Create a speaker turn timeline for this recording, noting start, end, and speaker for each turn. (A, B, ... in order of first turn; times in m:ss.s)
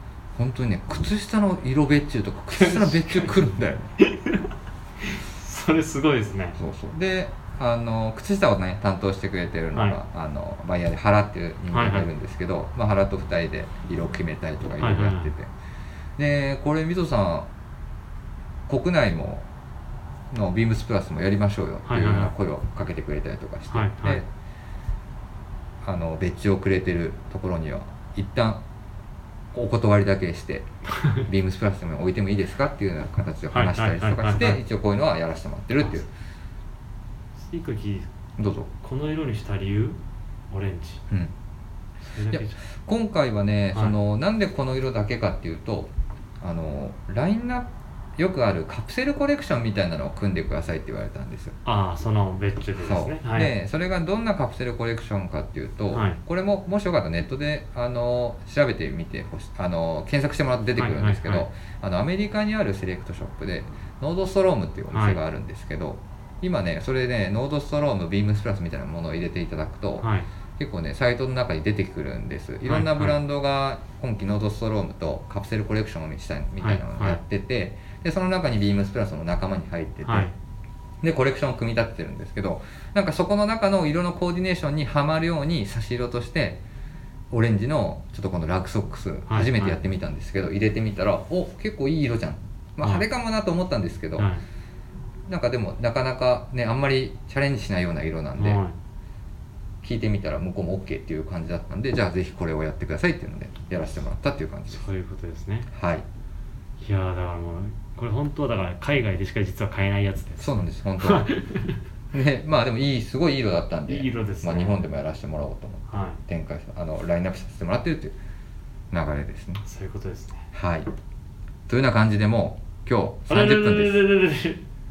0:00.4-0:03.9 A
0:02.5-0:03.4 B
0:04.0-0:04.5 B
0:05.0-0:06.6 B
0:06.6-0:15.5 A
0:11.7-0:12.1 B
0:14.8-0:15.3 B
0:16.2-0:17.5 A
0:18.7-0:19.5 A
0:20.3-0:24.3 A
0:21.9-0:22.3 B
0:23.7-0:24.2 B
0:25.8-0:28.6 A
0:29.5-0:36.1 A
0:31.0-0:31.2 B
0:33.5-0:34.6 B
0:37.4-0:38.1 B
0:38.4-0:38.7 A
0:38.8-0:40.0 B
0:40.5-0:41.0 B
0:42.0-0:42.6 B
0:42.3-0:51.6 A
0:51.6-0:53.5 B
0:52.8-1:20.3 A
0:55.9-0:56.2 B
1:00.8-1:01.5 B
1:04.9-1:05.2 B
1:10.0-1:10.3 B
1:12.7-1:13.2 B
1:16.6-1:17.2 B
1:20.0-1:20.3 B
1:21.0-1:26.6 A
1:27.3-1:34.3 A
1:29.3-1:29.8 B
1:34.2-1:34.4 B
1:35.3-1:38.6 A
1:38.4-1:38.8 B
1:39.8-1:44.8 A
1:44.7-1:45.7 B
1:45.7-1:46.1 A
1:46.8-1:51.8 B
1:50.4-1:51.3 A
1:52.1-1:58.2 A
1:53.9-1:54.8 B
1:55.9-1:56.2 B
1:58.9-1:59.6 A
1:59.6-2:00.5 B
2:00.5-2:00.9 A
2:01.7-2:04.1 A
2:03.3-2:04.6 B